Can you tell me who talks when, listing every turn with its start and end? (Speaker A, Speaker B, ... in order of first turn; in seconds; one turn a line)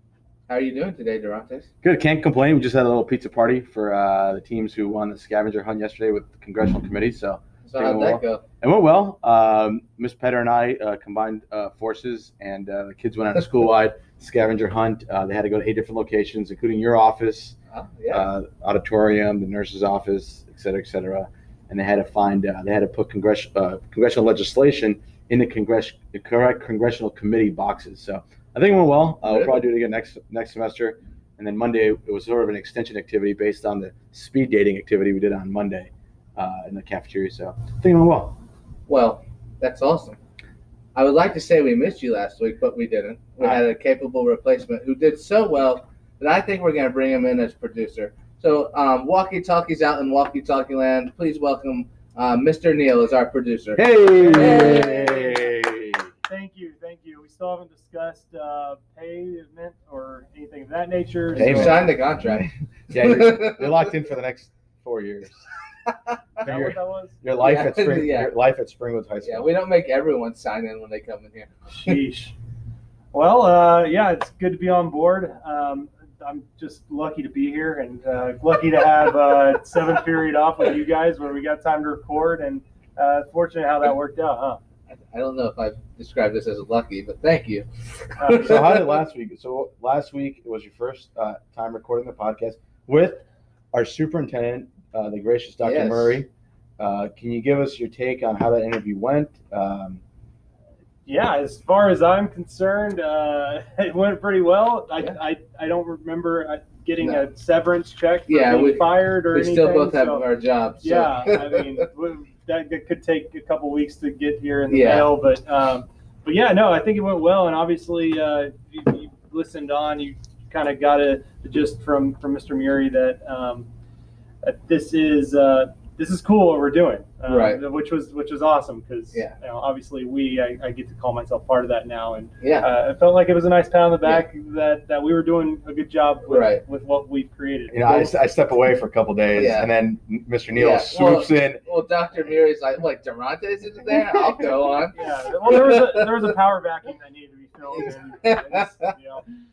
Speaker A: 0.5-1.7
Speaker B: 1.8-17.6
Speaker A: 7.6-8.4
Speaker A: 17.7-18.2
Speaker B: 18.1-38.4
Speaker A: 29.3-29.6
Speaker A: 38.9-40.2
Speaker A: 40.9-55.3
Speaker B: 53.8-56.1
Speaker C: 54.2-54.7
Speaker C: 56.3-61.8
Speaker B: 61.3-61.9
Speaker A: 61.4-63.7
Speaker B: 62.4-65.4
Speaker B: 66.4-69.5
Speaker C: 66.4-67.2
Speaker A: 67.4-68.3
Speaker A: 69.2-71.5
Speaker C: 71.7-72.3
Speaker C: 73.1-84.6
Speaker A: 84.9-88.9
Speaker C: 88.2-88.6
Speaker B: 88.4-100.0
Speaker A: 95.6-96.2
Speaker C: 101.0-110.2
Speaker A: 108.3-111.8
Speaker C: 110.8-123.7
Speaker A: 114.7-115.1
Speaker C: 124.4-137.8
Speaker A: 127.3-127.6
Speaker A: 132.4-132.7
Speaker A: 136.3-136.6
Speaker B: 137.7-141.6
Speaker A: 139.3-139.7
Speaker A: 140.6-146.2
Speaker C: 144.9-149.2
Speaker A: 148.1-148.9